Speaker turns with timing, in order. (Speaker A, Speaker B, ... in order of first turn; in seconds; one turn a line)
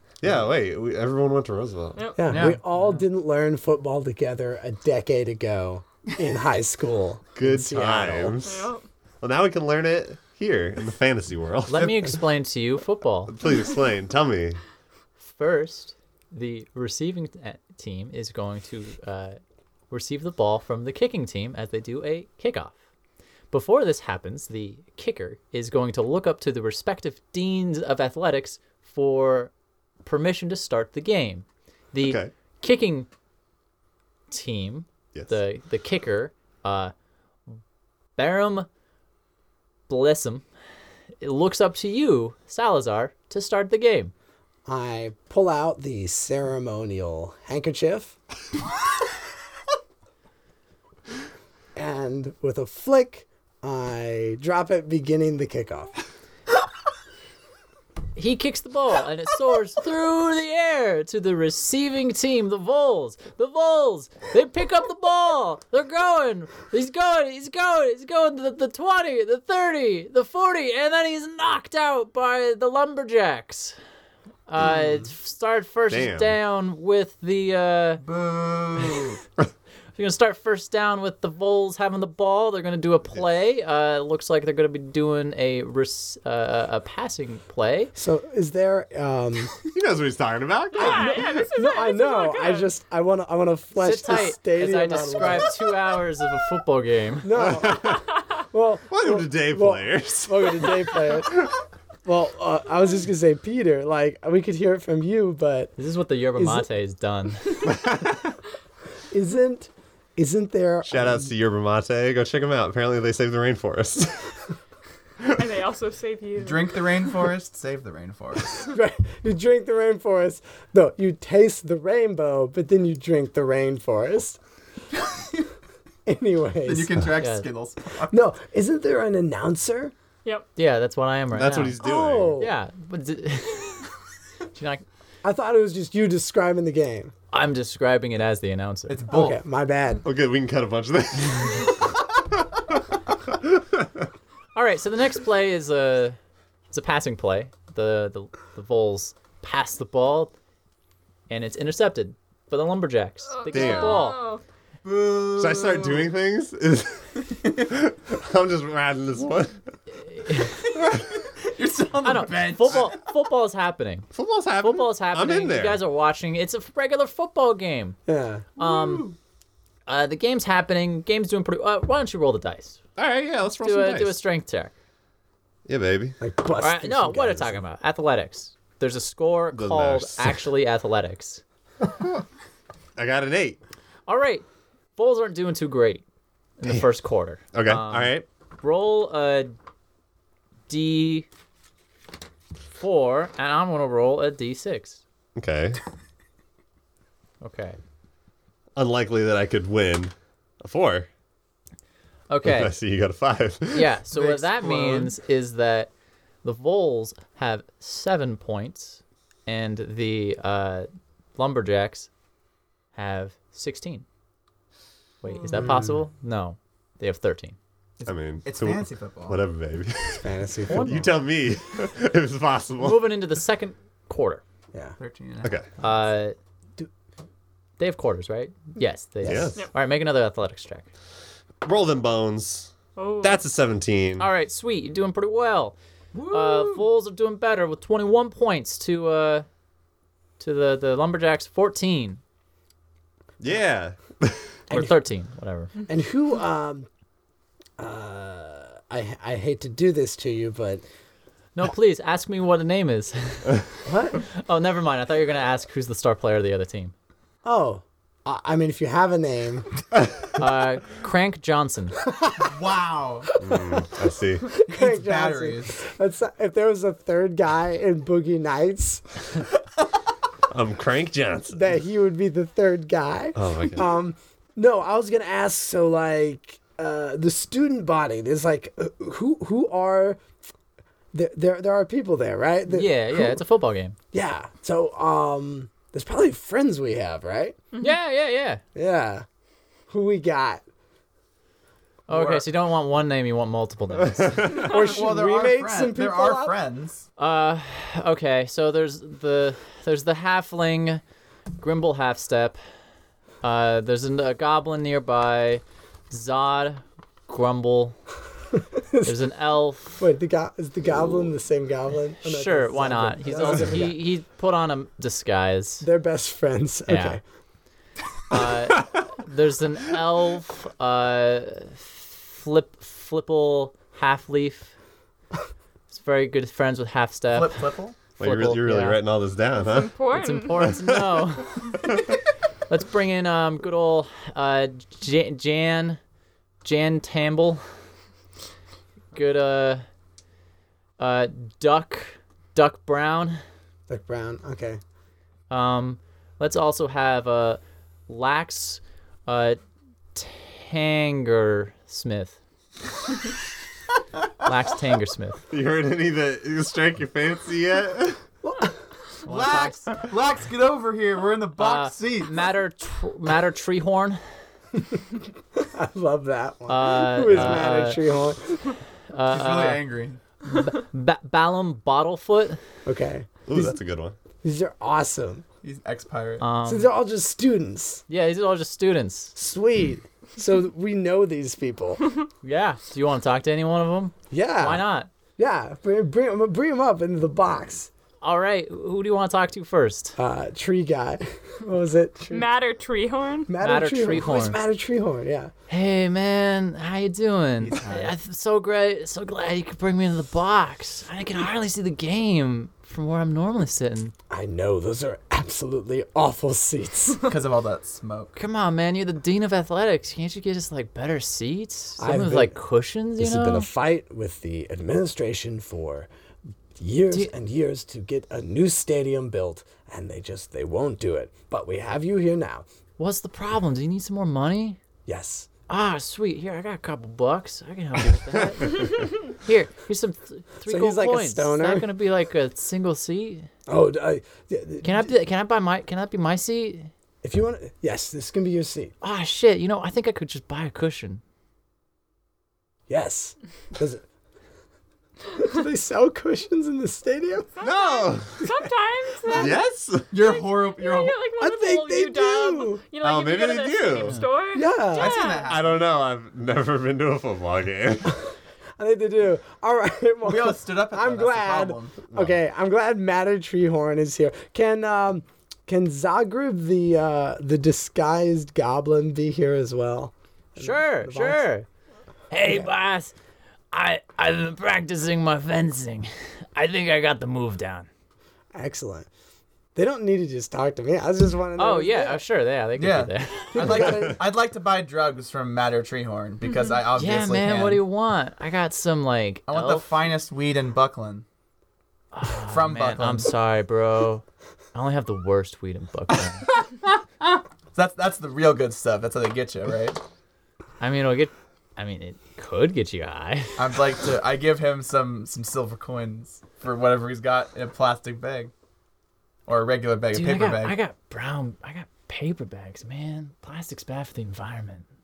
Speaker A: 0.2-2.1
Speaker B: 1.9-2.4
Speaker C: 2.2-8.4
Speaker D: 2.3-2.6
Speaker E: 2.7-3.1
Speaker A: 7.3-12.1
Speaker B: 8.4-8.8
Speaker E: 11.7-13.3
Speaker A: 13.3-14.6
Speaker E: 15.2-19.4
Speaker E: 19.9-22.8
Speaker E: 23.5-29.5
Speaker E: 30.0-33.1
Speaker A: 32.0-32.3
Speaker E: 34.3-36.9
Speaker A: 35.1-35.4
Speaker E: 38.2-38.7
Speaker E: 39.9-40.5
Speaker E: 41.2-44.1
Speaker C: 44.7-48.2
Speaker C: 51.8-56.0
Speaker E: 58.2-73.8
Speaker E: 74.5-78.0
Speaker A: 75.9-76.3
Speaker D: 78.0-79.2
Speaker E: 80.0-87.9
Speaker C: 88.0-89.5
Speaker A: 89.7-91.5
Speaker B: 90.7-92.7
Speaker C: 90.8-95.5
Speaker E: 93.8-97.4
Speaker C: 97.2-101.5
Speaker A: 97.3-98.1
Speaker A: 98.9-100.8
Speaker C: 102.0-105.8
Speaker E: 105.8-107.6
Speaker C: 106.3-106.7
Speaker A: 107.6-108.3
Speaker C: 109.1-111.3
Speaker A: 110.9-114.4
Speaker B: 115.3-116.8
Speaker D: 116.4-118.7
Speaker C: 118.6-124.4
Speaker C: 126.1-127.1
Speaker D: 126.6-128.2
Speaker E: 127.2-127.5
Speaker C: 128.1-129.9
Speaker E: 130.6-131.8
Speaker A: 131.3-132.4
Speaker C: 131.8-132.5
Speaker E: 132.4-133.9
Speaker E: 134.5-134.8
Speaker C: 135.2-137.1
Speaker E: 137.3-139.0
Speaker D: 138.9-139.4
Speaker C: 139.1-140.0
Speaker A: 140.0-141.9
Speaker A: 143.3-144.1
Speaker E: 144.6-146.2
Speaker E: 146.7-150.3
Speaker E: 151.3-154.3
Speaker B: 153.3-154.4
Speaker A: 153.5-154.1
Speaker D: 154.8-156.1
Speaker A: 155.3-159.6
Speaker E: 160.1-160.6
Speaker A: 160.8-161.1
Speaker D: 160.8-163.1
Speaker E: 162.0-168.0
Speaker A: 164.1-165.8
Speaker C: 168.1-168.5
Speaker E: 168.6-169.1
Speaker D: 168.6-169.2
Speaker E: 169.9-172.8
Speaker A: 173.0-174.2
Speaker E: 173.6-174.7
Speaker A: 175.7-176.2
Speaker C: 176.2-177.6
Speaker E: 176.6-181.4
Speaker A: 179.5-180.5
Speaker A: 181.8-182.2
Speaker A: 183.0-183.6
Speaker E: 184.1-184.4
Speaker E: 185.0-186.0
Speaker E: 186.6-189.5
Speaker A: 187.5-188.3
Speaker E: 190.7-191.3
Speaker E: 192.8-195.0
Speaker A: 195.4-195.8
Speaker E: 197.4-197.8
Speaker A: 198.8-201.1
Speaker E: 202.3-202.8
Speaker A: 202.4-203.9
Speaker E: 203.7-205.9
Speaker D: 204.1-205.2
Speaker E: 206.4-212.1
Speaker E: 212.9-214.1
Speaker E: 215.2-217.6
Speaker C: 215.5-216.1
Speaker D: 218.0-219.4
Speaker A: 218.0-223.1
Speaker C: 220.2-221.1
Speaker E: 220.7-221.1
Speaker E: 222.8-224.4
Speaker D: 225.0-225.5
Speaker E: 225.8-226.4
Speaker E: 227.8-230.9
Speaker A: 229.2-229.6
Speaker A: 231.6-234.3
Speaker B: 233.0-233.4
Speaker E: 234.2-235.8
Speaker D: 236.1-236.8
Speaker E: 236.3-239.5
Speaker E: 240.4-242.2
Speaker A: 243.4-244.9
Speaker E: 244.7-245.7
Speaker C: 245.9-246.9
Speaker C: 247.8-250.8
Speaker E: 251.6-253.6
Speaker C: 253.8-254.2
Speaker E: 254.2-256.9
Speaker C: 257.4-259.7
Speaker E: 260.4-262.0
Speaker C: 262.1-262.5
Speaker D: 262.4-263.3
Speaker C: 263.4-263.9
Speaker A: 263.4-264.5
Speaker C: 264.5-269.4
Speaker D: 264.6-265.8
Speaker A: 270.5-271.6
Speaker C: 271.5-280.2
Speaker A: 273.4-273.9
Speaker C: 281.1-283.4
Speaker E: 282.7-284.0
Speaker C: 284.1-287.6
Speaker E: 287.8-288.6
Speaker C: 288.8-289.2
Speaker C: 289.9-290.6
Speaker E: 292.1-294.7
Speaker C: 292.1-292.4
Speaker A: 294.1-294.7
Speaker C: 294.6-296.6
Speaker D: 294.7-297.1
Speaker E: 297.2-301.0
Speaker E: 301.6-302.6
Speaker E: 303.4-308.0
Speaker C: 308.7-309.2
Speaker E: 309.0-310.0
Speaker C: 310.0-314.0
Speaker E: 312.2-315.9
Speaker C: 315.8-317.2
Speaker E: 316.9-317.2
Speaker E: 318.3-324.7
Speaker E: 325.9-327.7
Speaker D: 327.3-328.0
Speaker E: 328.2-329.0
Speaker A: 328.2-332.0
Speaker B: 329.6-330.6
Speaker E: 330.1-331.8
Speaker E: 332.7-336.0
Speaker E: 336.6-337.6
Speaker E: 339.1-339.9
Speaker E: 341.0-343.4
Speaker C: 343.9-344.8
Speaker E: 345.5-349.6
Speaker E: 350.1-352.4
Speaker E: 354.4-355.4
Speaker A: 355.5-358.3
Speaker C: 358.4-358.7
Speaker E: 359.2-359.9
Speaker D: 359.2-362.5
Speaker E: 361.6-364.2
Speaker C: 365.5-368.8
Speaker E: 366.7-368.0
Speaker A: 367.3-367.6
Speaker E: 369.1-369.8
Speaker D: 369.3-370.2
Speaker E: 370.4-372.6
Speaker C: 372.9-373.6
Speaker A: 373.5-374.2
Speaker C: 374.4-375.4
Speaker D: 375.6-376.4
Speaker E: 376.4-376.9
Speaker C: 376.6-378.0
Speaker E: 378.1-379.4
Speaker C: 379.4-382.1
Speaker E: 382.4-385.1
Speaker C: 384.3-387.9
Speaker E: 388.2-390.2
Speaker C: 390.2-392.5
Speaker B: 392.3-393.5
Speaker C: 393.5-395.5
Speaker E: 393.6-394.6
Speaker E: 395.7-404.1
Speaker D: 397.6-398.1
Speaker C: 404.3-407.2
Speaker D: 407.2-408.4
Speaker E: 408.4-413.7
Speaker C: 412.0-412.6
Speaker C: 413.2-416.1
Speaker C: 416.8-422.7
Speaker E: 423.0-424.8
Speaker C: 425.1-425.5
Speaker E: 425.7-433.5
Speaker C: 430.7-431.9
Speaker C: 433.7-435.1
Speaker E: 434.8-436.9
Speaker C: 437.2-438.9
Speaker E: 439.0-441.2
Speaker C: 442.9-444.0
Speaker C: 445.4-447.5
Speaker A: 447.6-448.4
Speaker B: 447.6-455.6
Speaker A: 449.3-450.1
Speaker D: 450.1-451.2
Speaker C: 451.4-452.8
Speaker A: 453.0-454.2
Speaker E: 454.0-454.2
Speaker C: 454.5-455.2
Speaker D: 454.9-455.9
Speaker A: 455.4-458.2
Speaker C: 458.8-471.5
Speaker D: 460.2-462.0
Speaker E: 470.6-471.7
Speaker E: 472.3-473.1
Speaker C: 472.4-472.7
Speaker E: 473.7-477.9
Speaker C: 478.5-479.1
Speaker C: 479.8-482.2
Speaker E: 481.6-483.9
Speaker D: 482.8-487.8
Speaker C: 483.5-484.2
Speaker E: 486.9-490.0
Speaker D: 489.5-491.2
Speaker E: 492.1-496.5
Speaker D: 492.5-493.3
Speaker D: 497.7-500.0
Speaker E: 500.8-503.6
Speaker D: 503.6-508.5
Speaker D: 509.5-510.8
Speaker E: 510.1-514.9